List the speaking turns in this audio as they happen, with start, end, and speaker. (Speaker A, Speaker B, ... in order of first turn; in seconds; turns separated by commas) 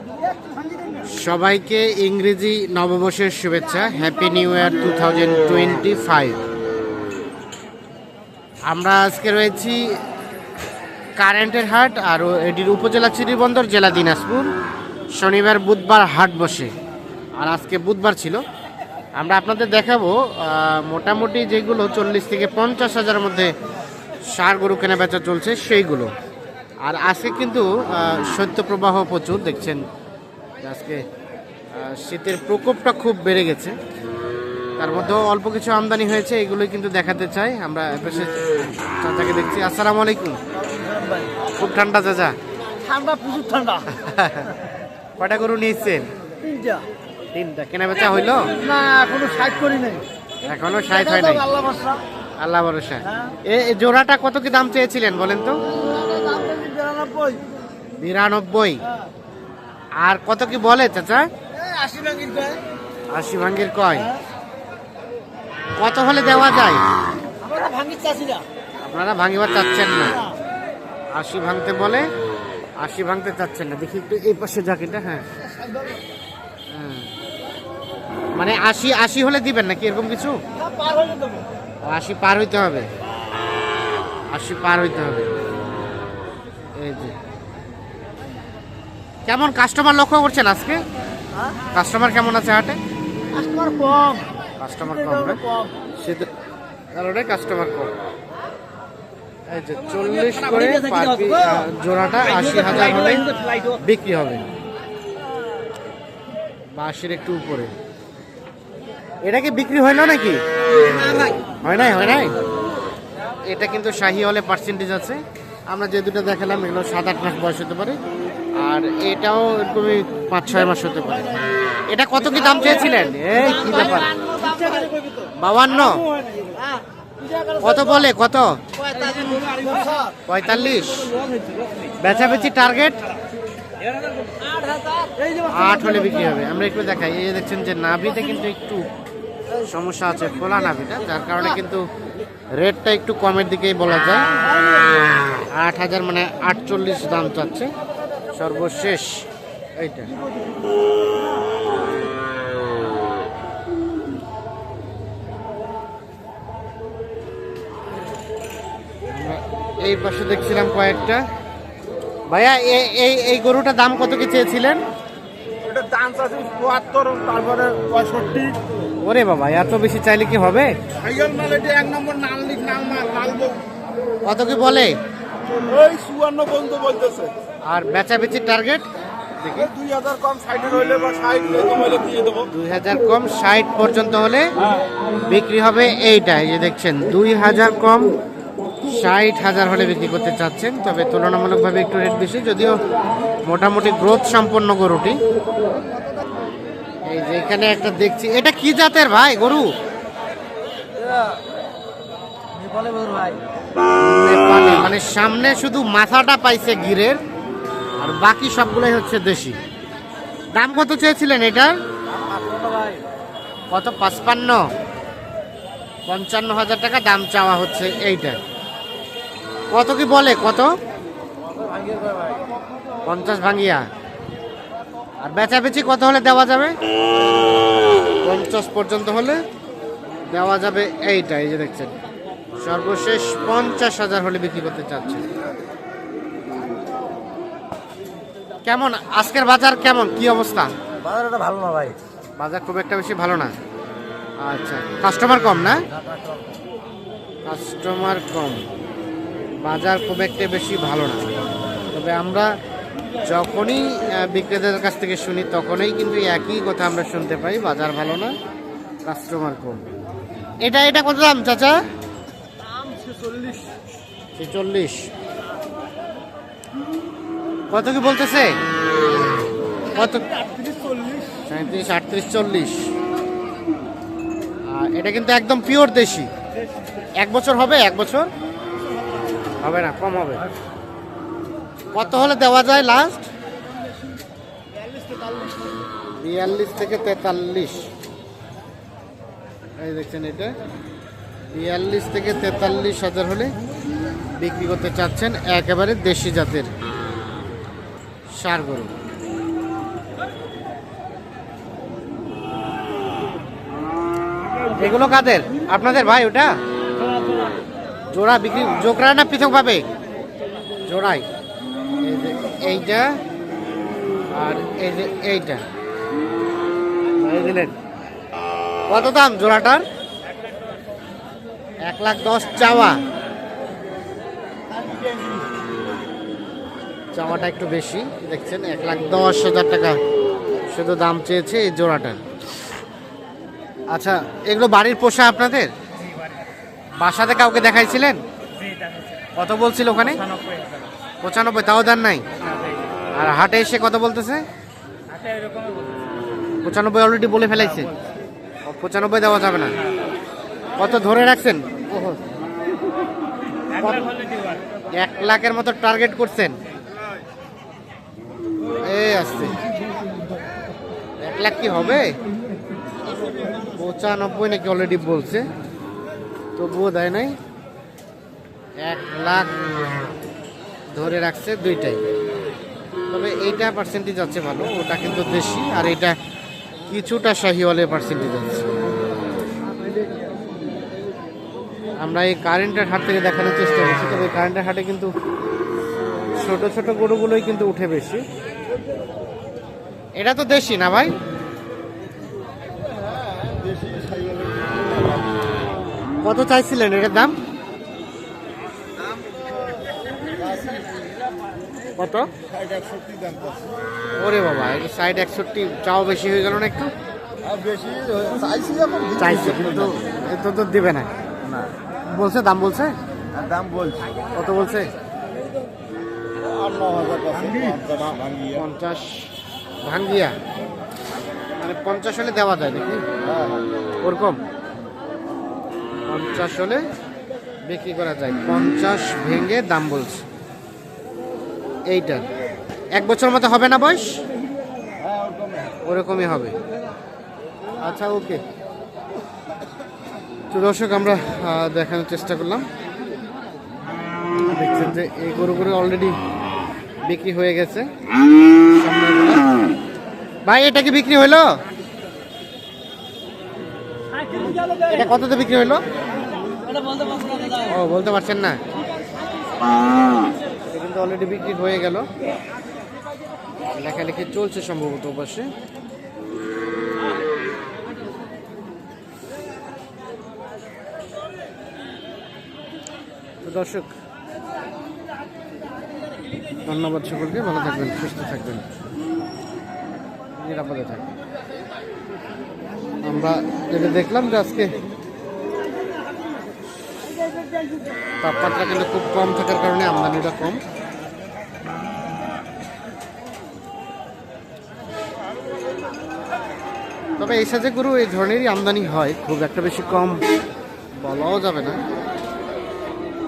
Speaker A: 1.1-6.4, Speaker A: 8.7-9.8, Speaker A: 11.2-14.5, Speaker A: 15.2-16.7, Speaker A: 17.4-18.4, Speaker A: 19.2-23.5, Speaker A: 24.3-26.1, Speaker A: 26.8-29.8, Speaker A: 30.6-31.0, Speaker A: 31.7-33.7, Speaker A: 34.8-40.4, Speaker B: 40.6-41.4, Speaker A: 41.5-42.3, Speaker B: 42.8-43.9, Speaker A: 43.9-44.6, Speaker A: 45.2-46.1, Speaker B: 46.4-46.8, Speaker A: 47.3-48.5, Speaker B: 48.5-50.0, Speaker A: 50.4-51.5, Speaker B: 51.1-52.0, Speaker A: 52.4-55.6, Speaker B: 55.9-57.5, Speaker A: 58.0-58.8, Speaker A: 60.0-61.2, Speaker B: 61.5-62.6, Speaker A: 63.1-64.1, Speaker A: 65.8-66.8, Speaker B: 67.4-68.4, Speaker A: 68.8-70.2, Speaker A: 71.1-72.0, Speaker A: 72.8-75.2, Speaker A: 76.7-77.1, Speaker A: 78.4-80.4, Speaker B: 80.6-81.4, Speaker A: 81.8-82.9, Speaker A: 84.3-85.3, Speaker A: 86.8-87.1, Speaker A: 89.3-90.8, Speaker A: 91.7-92.8, Speaker B: 93.3-94.3, Speaker A: 94.6-95.4, Speaker B: 95.4-95.7, Speaker A: 96.0-96.3, Speaker A: 97.0-97.9, Speaker A: 99.5-104.4, Speaker B: 100.6-101.6, Speaker B: 102.5-103.8, Speaker A: 106.8-107.7, Speaker A: 109.2-110.4, Speaker B: 110.8-111.4, Speaker A: 111.5-112.3, Speaker A: 113.5-118.0, Speaker A: 118.6-124.1, Speaker B: 123.3-125.3, Speaker A: 125.3-126.0, Speaker B: 126.3-127.6, Speaker A: 127.6-128.6, Speaker B: 128.8-130.2, Speaker A: 130.2-131.1, Speaker A: 132.0-133.0, Speaker B: 134.2-135.5, Speaker A: 135.5-138.9, Speaker A: 139.5-141.8, Speaker A: 142.6-144.3, Speaker A: 145.5-147.7, Speaker A: 148.3-149.2, Speaker A: 149.8-150.1, Speaker A: 159.1-161.2, Speaker A: 162.3-164.8, Speaker B: 165.6-168.6, Speaker A: 169.0-170.7, Speaker B: 171.0-173.6, Speaker A: 174.2-174.9, Speaker B: 175.5-177.3, Speaker A: 177.7-178.8, Speaker A: 179.4-179.7, Speaker B: 179.7-182.5, Speaker A: 182.5-184.5, Speaker A: 185.2-188.1, Speaker A: 188.8-192.8, Speaker A: 193.4-195.2, Speaker A: 197.0-199.7, Speaker B: 201.1-201.3, Speaker B: 202.6-203.4, Speaker A: 204.0-207.2, Speaker A: 208.0-209.6, Speaker A: 210.5-211.7, Speaker B: 212.1-213.0, Speaker A: 213.7-214.6, Speaker A: 216.1-218.4, Speaker A: 219.7-220.7, Speaker B: 221.4-222.4, Speaker A: 223.0-223.8, Speaker A: 225.2-226.7, Speaker A: 228.2-229.4, Speaker A: 230.3-231.9, Speaker A: 232.6-235.2, Speaker A: 238.6-240.7, Speaker B: 241.0-242.0, Speaker A: 242.4-243.5, Speaker A: 244.4-245.8, Speaker A: 247.4-248.7, Speaker A: 249.6-251.2, Speaker A: 251.9-252.5, Speaker A: 253.2-258.3, Speaker A: 259.1-259.8, Speaker A: 260.6-261.8, Speaker B: 263.2-263.5, Speaker A: 264.3-265.1, Speaker A: 267.7-268.6, Speaker A: 269.9-270.3, Speaker A: 271.4-272.9, Speaker A: 274.7-276.3, Speaker A: 277.2-278.3, Speaker A: 279.6-280.4, Speaker A: 281.9-283.3, Speaker A: 286.2-287.9, Speaker A: 289.8-290.5, Speaker A: 291.5-293.5, Speaker A: 294.4-296.7, Speaker A: 298.4-298.9, Speaker A: 304.7-306.5, Speaker A: 308.1-309.9, Speaker A: 310.9-311.2, Speaker A: 312.0-313.1, Speaker A: 314.3-315.6, Speaker A: 317.2-317.8, Speaker A: 318.9-319.9, Speaker A: 321.8-323.0, Speaker B: 324.8-325.4, Speaker A: 327.1-330.0, Speaker A: 330.7-332.2, Speaker A: 333.9-335.7, Speaker A: 337.0-338.2, Speaker A: 339.3-340.3, Speaker A: 341.2-342.2, Speaker A: 343.2-344.4, Speaker A: 346.6-347.9, Speaker A: 348.6-349.7, Speaker A: 350.8-352.2, Speaker A: 353.7-354.2, Speaker A: 355.0-356.6, Speaker A: 358.9-359.6, Speaker A: 361.2-362.1, Speaker A: 363.7-365.4, Speaker A: 366.6-367.4, Speaker A: 368.8-369.5, Speaker A: 370.9-372.0, Speaker A: 373.1-376.1, Speaker A: 376.9-378.7, Speaker A: 382.0-385.1, Speaker A: 386.4-388.2, Speaker A: 390.2-391.1, Speaker B: 393.2-395.2, Speaker A: 396.2-397.4, Speaker B: 400.4-400.9, Speaker A: 402.0-402.3, Speaker B: 402.5-403.6, Speaker A: 404.2-406.9, Speaker B: 407.4-409.7, Speaker A: 409.1-411.1, Speaker A: 412.1-412.9, Speaker B: 413.4-414.0, Speaker A: 414.3-414.9, Speaker B: 416.4-418.5, Speaker A: 418.5-419.3, Speaker A: 419.8-420.3, Speaker A: 421.6-423.0, Speaker A: 424.0-424.4, Speaker A: 426.1-426.8, Speaker A: 427.7-430.2, Speaker A: 431.9-432.3, Speaker A: 432.9-434.2, Speaker B: 435.1-435.4, Speaker A: 435.8-436.5, Speaker A: 437.8-438.4, Speaker A: 440.5-442.7, Speaker A: 444.5-446.2, Speaker A: 447.0-447.9, Speaker A: 448.7-449.4, Speaker A: 450.4-451.5, Speaker B: 454.4-454.8, Speaker A: 454.9-455.8, Speaker B: 456.9-457.6, Speaker A: 457.6-458.6, Speaker A: 460.7-462.1, Speaker A: 463.8-465.5, Speaker A: 473.4-473.9, Speaker A: 476.6-478.7, Speaker A: 480.3-481.1, Speaker A: 483.0-484.8, Speaker A: 488.2-490.6, Speaker A: 497.2-500.2, Speaker A: 501.0-501.8